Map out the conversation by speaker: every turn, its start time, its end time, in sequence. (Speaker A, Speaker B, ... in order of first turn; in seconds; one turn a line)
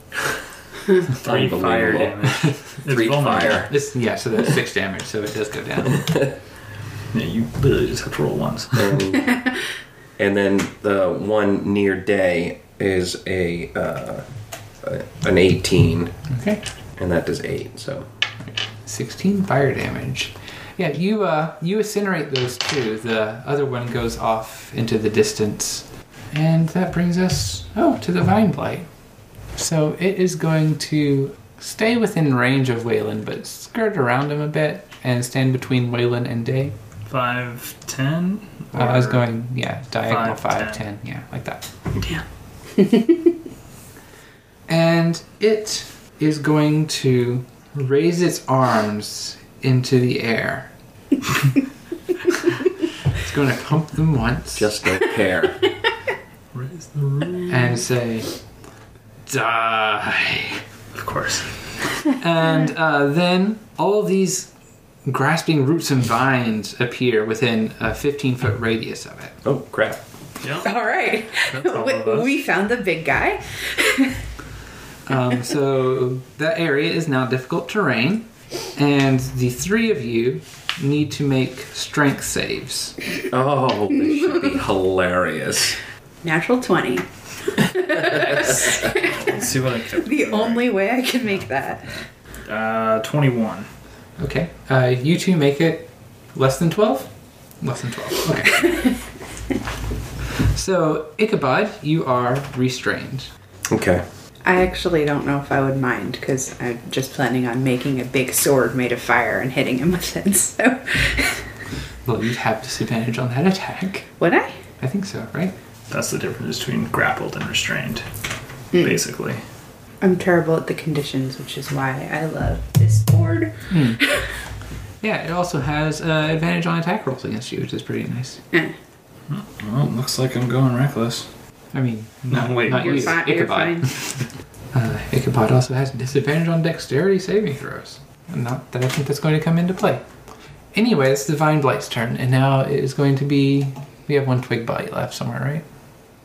Speaker A: 1.1-3.7
Speaker B: 1.1-3.7
Speaker C: 3.7-6.2
Speaker A: 6.0-6.3
Speaker B: 7.1-9.0
Speaker A: 8.8-9.4
Speaker A: 10.2-14.2
Speaker A: 14.8-16.1
Speaker C: 16.3-16.6
Speaker A: 17.0-18.1
Speaker C: 18.4-28.9
Speaker C: 29.5-36.7
Speaker B: 37.1-39.2
Speaker C: 38.7-41.6
Speaker B: 40.0-40.8
Speaker B: 42.0-42.2
Speaker D: 42.8-43.1
Speaker C: 44.7-50.7
Speaker C: 53.1-54.7
Speaker A: 54.5-55.7
Speaker B: 56.5-57.7
Speaker C: 57.5-58.3
Speaker C: 59.2-60.6
Speaker B: 60.9-61.8
Speaker C: 62.1-64.5
Speaker C: 65.0-69.4
Speaker A: 69.4-70.0
Speaker B: 70.4-70.7
Speaker D: 70.6-74.2
Speaker B: 71.5-72.3
Speaker C: 75.0-83.0
Speaker A: 83.3-85.8
Speaker D: 86.2-92.0
Speaker B: 88.1-90.8
Speaker B: 92.5-93.7
Speaker C: 94.2-98.8
Speaker D: 98.7-98.9
Speaker C: 100.5-103.3
Speaker A: 103.7-104.0
Speaker D: 104.4-111.5
Speaker C: 112.0-114.1
Speaker D: 114.2-114.5
Speaker C: 114.8-115.5
Speaker B: 115.9-118.0
Speaker B: 118.8-119.4
Speaker D: 120.0-124.3
Speaker C: 123.7-124.0
Speaker C: 125.0-128.4
Speaker B: 129.3-131.3
Speaker C: 131.7-140.0
Speaker B: 132.3-133.2
Speaker D: 132.7-133.9
Speaker C: 140.7-145.6